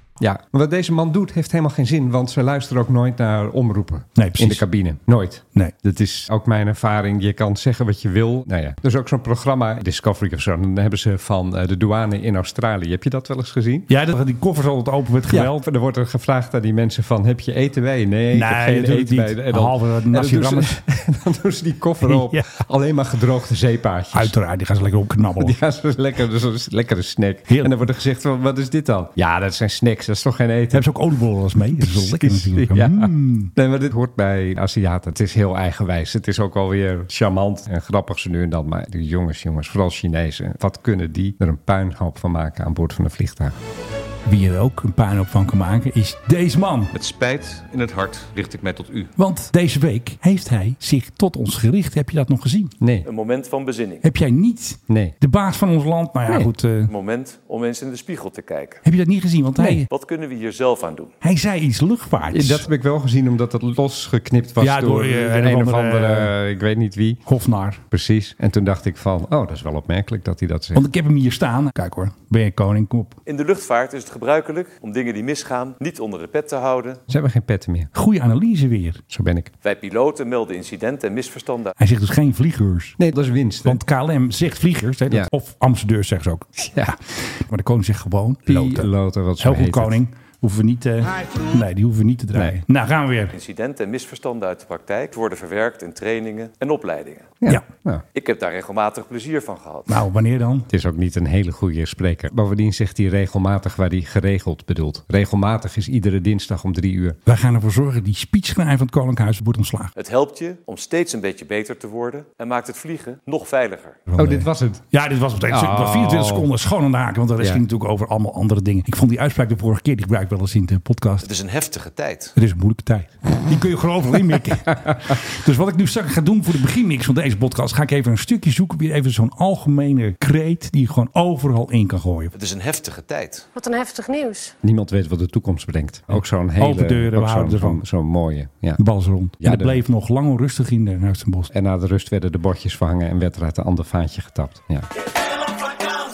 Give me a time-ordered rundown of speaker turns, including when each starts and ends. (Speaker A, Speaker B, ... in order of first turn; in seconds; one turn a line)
Speaker A: 0.2-13.9
Speaker B: 4.2-4.6
Speaker B: 13.9-15.6
Speaker A: 15.3-24.3
Speaker B: 18.3-20.8
Speaker B: 22.0-22.5
Speaker B: 24.1-25.5
Speaker A: 25.4-30.9
Speaker B: 30.7-33.5
Speaker A: 31.7-43.5
Speaker B: 44.2-46.9
Speaker C: 46.9-49.1
Speaker B: 49.2-52.7
Speaker A: 52.8-53.0
Speaker C: 53.0-54.0
Speaker B: 54.0-56.9
Speaker A: 54.9-55.1
Speaker C: 56.9-58.8
Speaker B: 58.8-59.9
Speaker C: 59.9-61.1
Speaker B: 61.2-62.6
Speaker A: 62.3-67.2
Speaker B: 64.6-66.3
Speaker B: 67.2-67.8
Speaker A: 67.9-70.8
Speaker B: 70.7-73.2
Speaker C: 73.2-77.0
Speaker A: 77.1-77.9
Speaker B: 77.9-79.0
Speaker A: 79.1-79.5
Speaker C: 79.6-81.7
Speaker B: 81.8-83.0
Speaker A: 83.0-83.8
Speaker B: 83.6-86.7
Speaker A: 86.6-87.0
Speaker B: 87.3-88.9
Speaker A: 88.5-90.0
Speaker B: 89.4-93.3
Speaker C: 93.3-97.4
Speaker A: 97.4-98.0
Speaker C: 98.1-99.9
Speaker B: 99.9-100.7
Speaker A: 100.7-107.2
Speaker B: 107.2-109.9
Speaker C: 110.0-114.0
Speaker B: 114.1-121.2
Speaker A: 114.2-114.8
Speaker A: 115.5-116.5
Speaker C: 121.2-122.3
Speaker B: 122.3-132.3
Speaker C: 132.3-133.5
Speaker A: 134.6-138.8
Speaker B: 136.6-137.8
Speaker B: 138.8-141.5
Speaker A: 139.4-139.8
Speaker A: 141.5-144.9